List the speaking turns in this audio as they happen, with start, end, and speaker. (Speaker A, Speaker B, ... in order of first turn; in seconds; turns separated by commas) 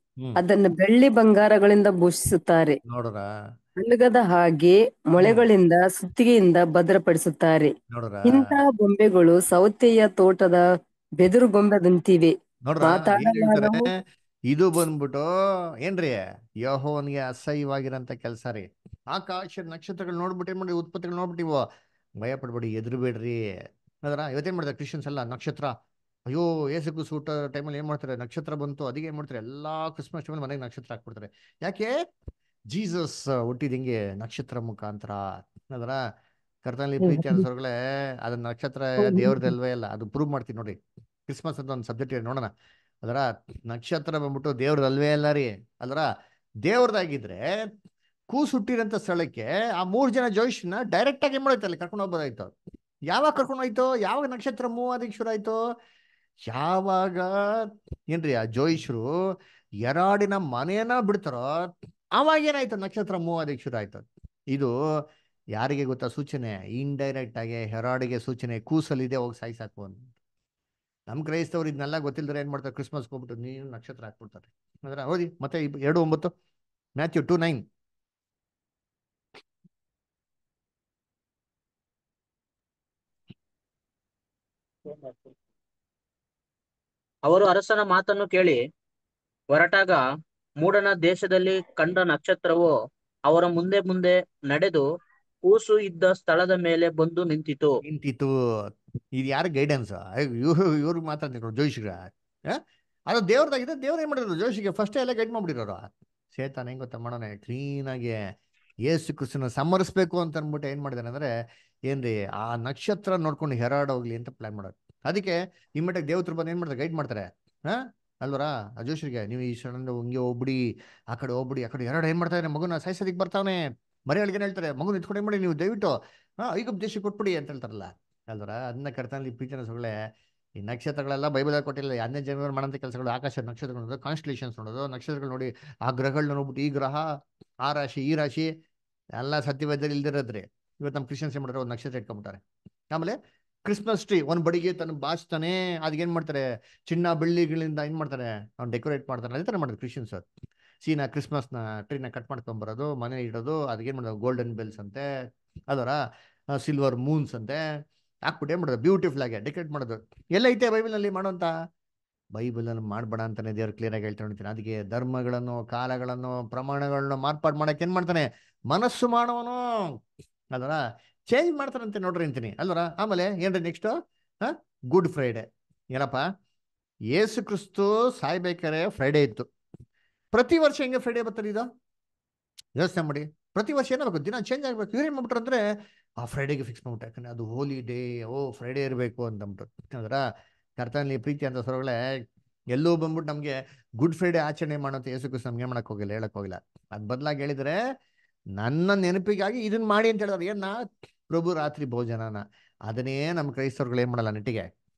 Speaker A: 0.4-2.8, Speaker B: 2.9-3.3, Speaker A: 3.8-7.7, Speaker B: 5.2-5.5, Speaker B: 7.9-8.6, Speaker A: 8.2-10.6, Speaker A: 11.2-13.9, Speaker B: 12.7-13.9, Speaker B: 14.5-15.3, Speaker B: 15.8-21.6, Speaker B: 22.2-23.4, Speaker B: 24.1-25.7, Speaker B: 26.3-31.9, Speaker B: 32.7-36.0, Speaker B: 36.6-42.5, Speaker A: 37.0-37.5, Speaker A: 39.0-39.5, Speaker B: 43.0-46.1, Speaker B: 46.6-47.4, Speaker B: 48.3-52.5, Speaker B: 53.1-55.6, Speaker B: 56.5-59.1, Speaker B: 59.8-64.7, Speaker B: 65.5-70.1, Speaker B: 71.1-76.3, Speaker B: 77.0-77.6, Speaker C: 87.3-88.6, Speaker C: 89.5-90.0, Speaker C: 90.6-92.7, Speaker C: 93.3-94.8, Speaker C: 95.5-97.8, Speaker B: 97.8-98.3, Speaker B: 99.2-102.6, Speaker B: 103.1-108.2, Speaker B: 108.9-111.3, Speaker B: 111.9-129.9, Speaker B: 130.6-137.1, Speaker B: 137.6-138.5, Speaker B: 139.2-142.4, Speaker B: 142.9-150.2, Speaker B: 150.8-155.0, Speaker B: 155.7-156.0, Speaker B: 156.5-157.6, Speaker B: 158.3-161.5, Speaker B: 162.3-169.6, Speaker B: 170.5-176.2, Speaker B: 177.1-179.5, Speaker B: 180.3-181.7, Speaker B: 182.8-185.6, Speaker B: 186.2-190.2, Speaker B: 190.8-192.0, Speaker B: 192.7-197.8, Speaker B: 198.6-200.8, Speaker B: 201.3-204.7